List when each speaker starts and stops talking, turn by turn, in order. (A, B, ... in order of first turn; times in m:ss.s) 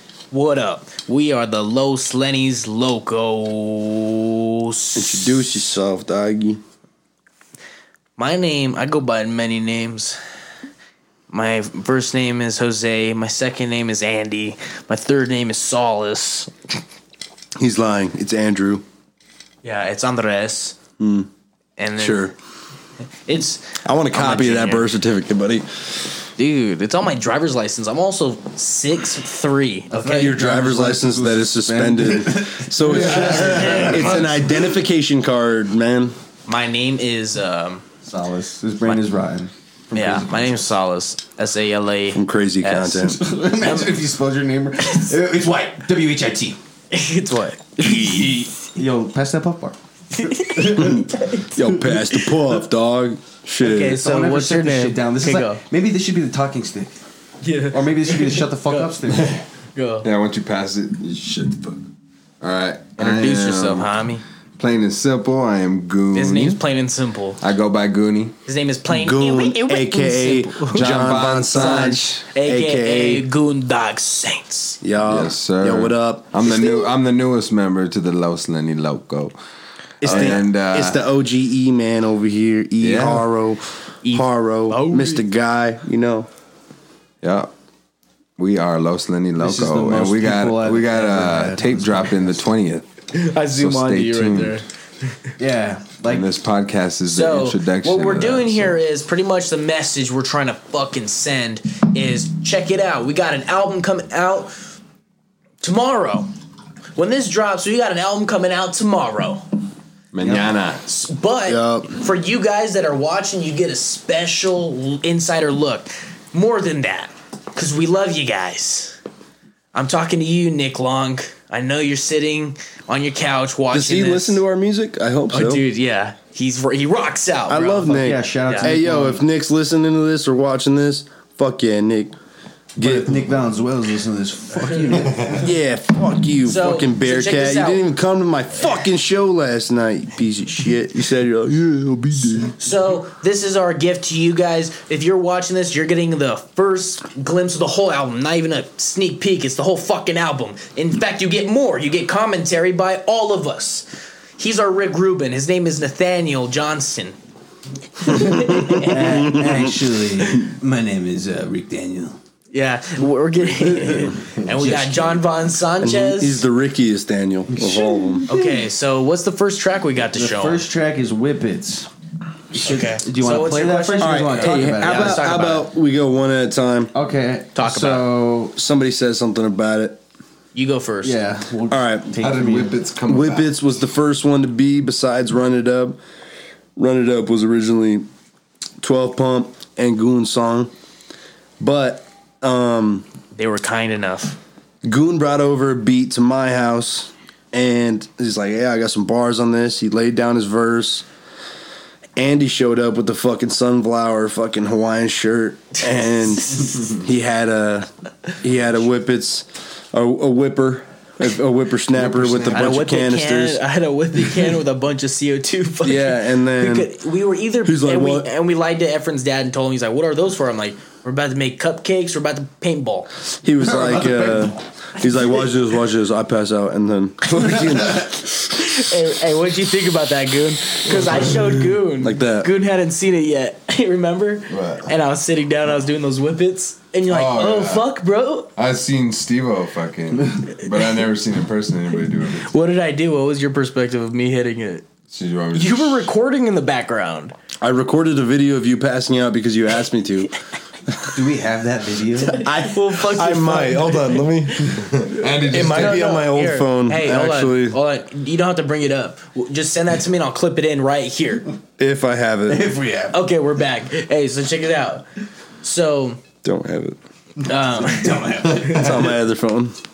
0:00.3-0:05.5 A
0:04.9-0:06.6 B
0:08.2-0:10.2 A
0:11.3-0:16.5 A
0:17.6-0:18.8 B
0:19.6-0:20.8 A
0:21.0-0:21.3 B
0:21.8-0:22.3 A
0:22.0-0:22.3 B
0:23.3-0:24.9 A
0:23.8-0:25.7 B
0:26.4-0:30.4 A
0:29.9-0:34.2 C
0:30.0-0:36.2 B
0:33.0-0:34.0 D
0:33.1-0:34.4 A
0:36.5-0:37.8 A
0:38.0-0:40.7 C
0:39.9-0:44.0 A
0:42.1-0:43.2 B
0:43.0-0:46.6 C
0:46.9-0:48.4 A
0:47.8-0:51.0 C
0:50.2-0:52.5 A
0:50.9-0:54.0 B
0:53.6-0:55.6 A
0:54.0-0:57.0 C
0:57.4-0:59.0 A
0:57.7-0:59.4 C
0:59.1-0:59.4 D
0:59.8-1:00.1 A
1:00.0-1:01.8 D
1:02.4-1:03.9 D
1:03.0-1:04.2 A
1:04.6-1:06.6 D
1:06.1-1:07.4 A
1:07.4-1:08.3 D
1:08.5-1:14.8 A
1:08.9-1:13.3 B
1:10.7-1:12.1 D
1:14.8-1:16.3 B
1:15.1-1:19.3 D
1:16.4-1:16.9 A
1:20.0-1:21.0 D
1:20.0-1:26.3 B
1:20.1-1:20.4 A
1:22.8-1:23.3 D
1:24.0-1:25.2 A
1:27.2-1:27.5 D
1:28.4-1:32.9 D
1:29.4-1:32.4 C
1:33.1-1:34.6 A
1:33.4-1:34.6 D
1:35.4-1:36.3 C
1:36.1-1:38.8 D
1:37.1-1:44.5 A
1:45.6-1:46.3 A
1:47.0-1:49.4 A
1:50.1-1:50.8 D
1:50.9-1:59.0 A
1:51.5-1:51.9 B
1:59.7-2:04.4 A
2:03.7-2:05.6 B
2:05.3-2:07.9 A
2:07.5-2:12.2 B
2:07.9-2:09.2 C
2:08.4-2:08.7 A
2:12.8-2:13.3 B
2:12.8-2:15.4 C
2:14.6-2:15.1 A
2:15.4-2:22.5 B
2:16.4-2:17.8 A
2:22.6-2:33.9 A
2:34.4-2:37.2 A
2:38.0-2:39.4 A
2:38.2-2:39.7 B
2:38.7-2:42.2 C
2:42.5-2:46.4 A
2:43.7-2:45.2 C
2:45.8-2:48.3 B
2:47.6-2:48.2 C
2:48.3-2:50.6 A
2:50.1-2:51.9 C
2:52.5-2:55.2 C
2:52.6-2:55.7 A
2:54.0-2:56.9 B
2:56.9-2:58.5 C
2:57.6-2:58.2 A
2:58.6-3:00.0 B
3:00.5-3:01.2 A
3:01.0-3:02.8 C
3:01.7-3:02.2 B
3:02.2-3:03.5 D
3:03.1-3:06.0 B
3:06.8-3:08.1 B
3:08.8-3:10.7 B
3:11.6-3:13.1 B
3:13.3-3:14.4 A
3:14.8-3:21.1 B
3:22.2-3:27.9 B
3:28.4-3:33.6 B
3:32.0-3:32.5 D
3:32.4-3:43.1 A
3:35.8-3:36.9 B
3:37.6-3:38.3 B
3:43.4-3:48.1 B
3:48.4-3:58.5 A
3:52.0-3:52.5 B
3:54.5-3:54.9 D
3:57.1-3:57.8 D
3:58.6-4:02.5 D
4:02.4-4:04.9 A
4:05.1-4:06.1 D
4:05.5-4:07.3 A
4:07.6-4:10.4 B
4:11.1-4:12.4 C
4:12.3-4:14.7 A
4:12.4-4:14.7 B
4:14.9-4:16.2 D
4:15.4-4:21.5 A
4:15.5-4:17.8 B
4:21.8-4:22.7 B
4:22.5-4:23.2 C
4:23.1-4:25.1 A
4:25.6-4:26.2 A
4:26.4-4:27.0 B
4:27.4-4:28.6 A
4:27.8-4:29.1 C
4:28.6-4:29.8 B